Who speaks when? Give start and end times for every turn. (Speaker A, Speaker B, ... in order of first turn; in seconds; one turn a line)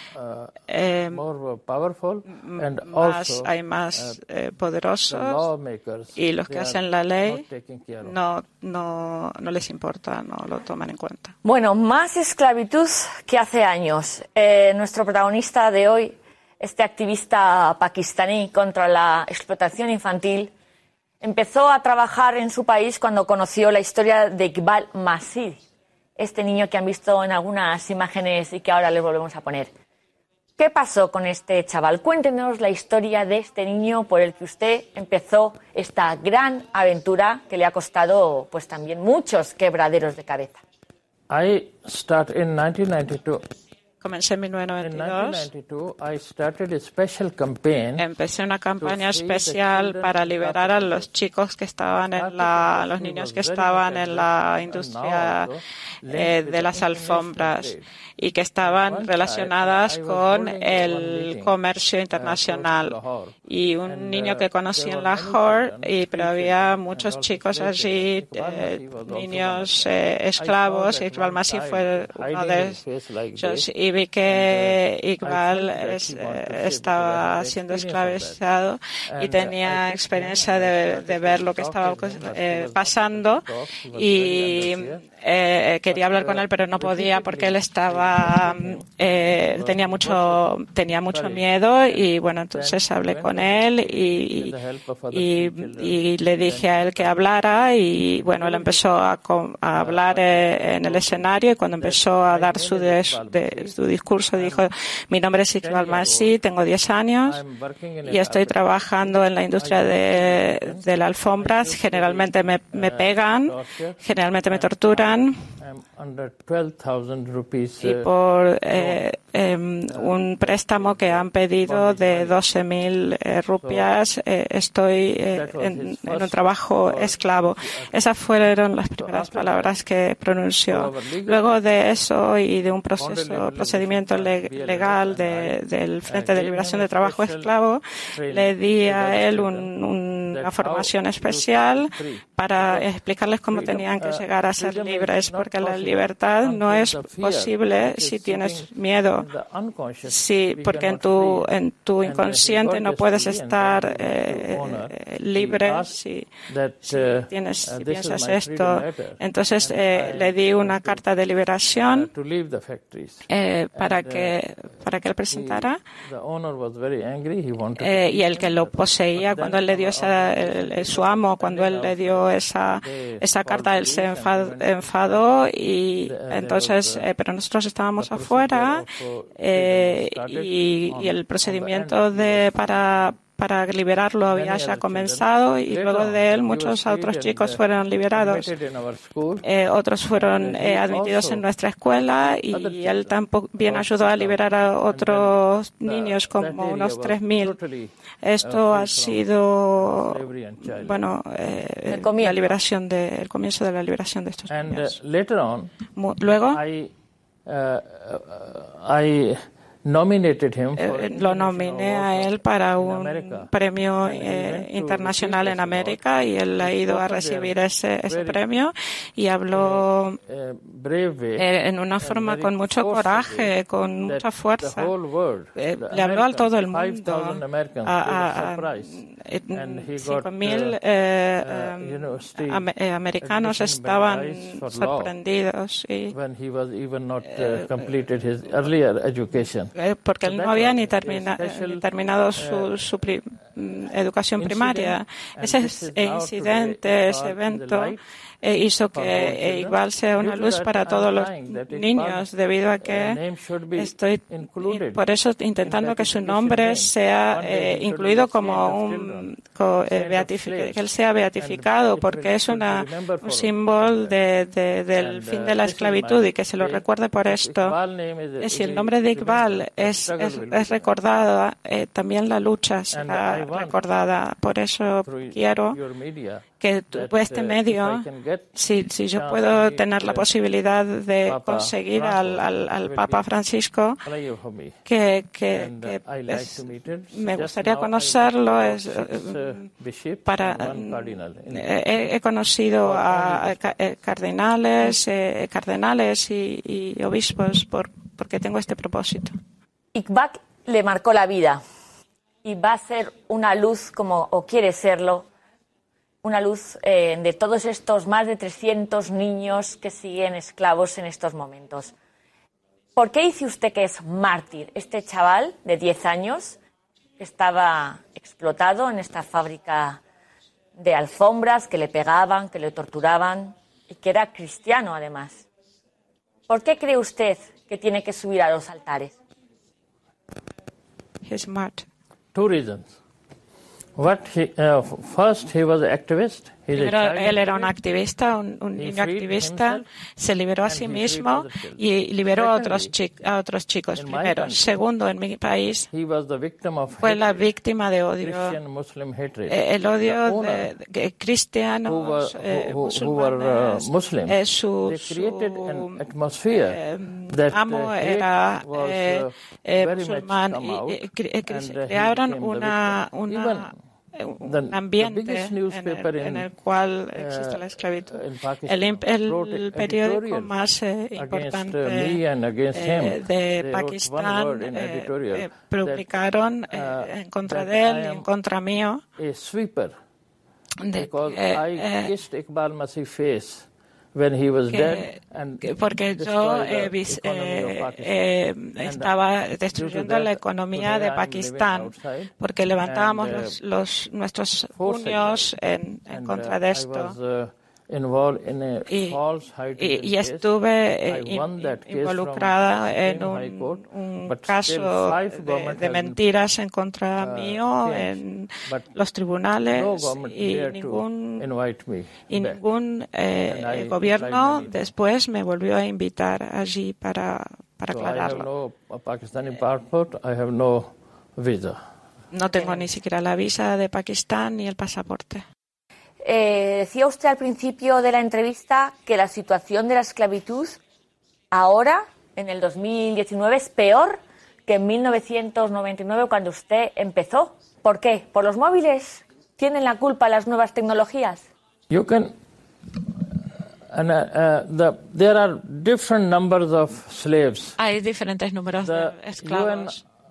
Speaker A: 0.1-0.6
Speaker B: 0.7-1.2
Speaker A: 1.1-4.2
Speaker B: 2.3-5.5
Speaker A: 5.1-8.2
Speaker B: 6.2-7.4
Speaker B: 8.0-11.3
Speaker C: 11.4-20.5
Speaker C: 21.2-25.6
Speaker C: 26.2-29.7
Speaker C: 30.6-40.6
Speaker A: 41.3-43.5
Speaker B: 44.0-45.5
Speaker A: 44.8-48.1
Speaker B: 48.0-55.5
Speaker A: 48.8-51.1
Speaker A: 52.2-57.9
Speaker B: 56.1-63.0
Speaker A: 58.6-61.5
Speaker A: 62.1-73.7
Speaker B: 63.5-72.8
Speaker B: 73.4-94.5
Speaker A: 74.2-78.4
Speaker A: 79.1-85.1
Speaker A: 85.9-90.5
Speaker A: 91.1-97.2
Speaker B: 95.1-107.4
Speaker A: 98.2-99.0
Speaker A: 99.7-103.7
Speaker A: 104.3-104.7
Speaker A: 105.6-106.3
Speaker A: 107.2-110.8
Speaker B: 108.1-115.4
Speaker A: 111.3-118.1
Speaker B: 117.8-149.3
Speaker A: 118.7-119.0
Speaker A: 119.9-122.4
Speaker A: 123.6-123.9
Speaker A: 125.3-127.9
Speaker A: 129.0-129.7
Speaker A: 130.7-131.5
Speaker A: 133.0-137.5
Speaker A: 138.1-139.7
Speaker A: 140.3-142.9
Speaker A: 143.5-151.5
Speaker B: 150.1-156.3
Speaker A: 152.0-161.0
Speaker B: 156.9-162.1
Speaker A: 161.8-164.4
Speaker B: 163.3-165.8
Speaker A: 165.3-172.2
Speaker B: 167.8-178.8
Speaker A: 172.8-175.5
Speaker A: 176.0-177.1
Speaker A: 178.0-183.1
Speaker B: 179.4-188.5
Speaker A: 184.3-187.6
Speaker A: 188.1-189.4
Speaker B: 189.4-197.6
Speaker A: 190.2-199.3
Speaker B: 198.2-200.2
Speaker A: 199.8-201.1
Speaker B: 200.7-205.0
Speaker C: 201.9-202.4
Speaker A: 204.5-205.7
Speaker B: 206.0-206.6
Speaker A: 206.5-206.9
Speaker A: 207.5-213.5
Speaker B: 210.8-220.2
Speaker A: 214.0-216.0
Speaker A: 216.6-217.6
Speaker A: 218.1-218.4
Speaker A: 219.5-221.4
Speaker B: 221.4-224.9
Speaker A: 222.0-223.5
Speaker A: 224.1-229.0
Speaker B: 225.6-236.1
Speaker A: 229.5-230.8
Speaker A: 231.4-232.7
Speaker A: 233.2-235.1
Speaker A: 236.1-241.8
Speaker B: 239.8-253.2
Speaker A: 242.4-242.8
Speaker A: 244.4-248.0
Speaker A: 248.9-252.3
Speaker A: 252.8-255.0
Speaker B: 253.8-267.8
Speaker A: 255.6-259.4
Speaker A: 259.9-264.1
Speaker A: 265.0-270.9
Speaker B: 268.4-275.8
Speaker A: 272.9-273.8
Speaker A: 275.1-278.6
Speaker B: 276.6-278.1
Speaker B: 278.6-284.0
Speaker A: 279.1-280.3
Speaker A: 281.3-283.3
Speaker A: 284.1-284.8
Speaker B: 284.9-286.6
Speaker A: 285.5-291.7
Speaker B: 287.1-289.4
Speaker B: 290.3-299.3
Speaker A: 292.8-293.8
Speaker C: 299.9-301.6
Speaker C: 302.4-305.3
Speaker C: 306.2-311.9
Speaker C: 313.0-316.6
Speaker C: 317.2-320.0
Speaker C: 320.8-325.4
Speaker C: 326.5-329.1
Speaker B: 331.3-331.9
Speaker A: 332.4-332.9
Speaker A: 334.0-337.8
Speaker B: 336.7-345.9
Speaker A: 338.8-339.9
Speaker A: 340.6-342.9
Speaker A: 343.9-344.8
Speaker A: 345.9-347.5
Speaker B: 347.0-348.6
Speaker A: 348.2-350.7
Speaker B: 349.5-356.0
Speaker A: 351.9-363.7
Speaker B: 356.7-372.2
Speaker A: 364.4-366.5
Speaker A: 367.1-370.5
Speaker A: 371.2-376.1
Speaker B: 372.8-379.0
Speaker A: 376.7-378.3
Speaker A: 379.2-379.9
Speaker B: 380.8-382.1
Speaker A: 380.9-388.1
Speaker B: 384.7-397.1
Speaker A: 388.8-389.1
Speaker A: 389.7-392.3
Speaker A: 392.8-393.6
Speaker A: 394.8-395.5
Speaker A: 396.1-400.5
Speaker B: 398.9-399.2
Speaker B: 399.8-411.5
Speaker A: 401.1-406.2
Speaker A: 407.2-408.9
Speaker A: 409.7-412.6
Speaker B: 412.3-418.5
Speaker A: 413.4-414.7
Speaker A: 417.9-421.8
Speaker B: 422.3-425.4
Speaker C: 426.2-430.8
Speaker C: 431.5-441.5
Speaker A: 441.9-442.4
Speaker A: 443.9-447.8
Speaker B: 447.8-450.0
Speaker A: 448.8-450.0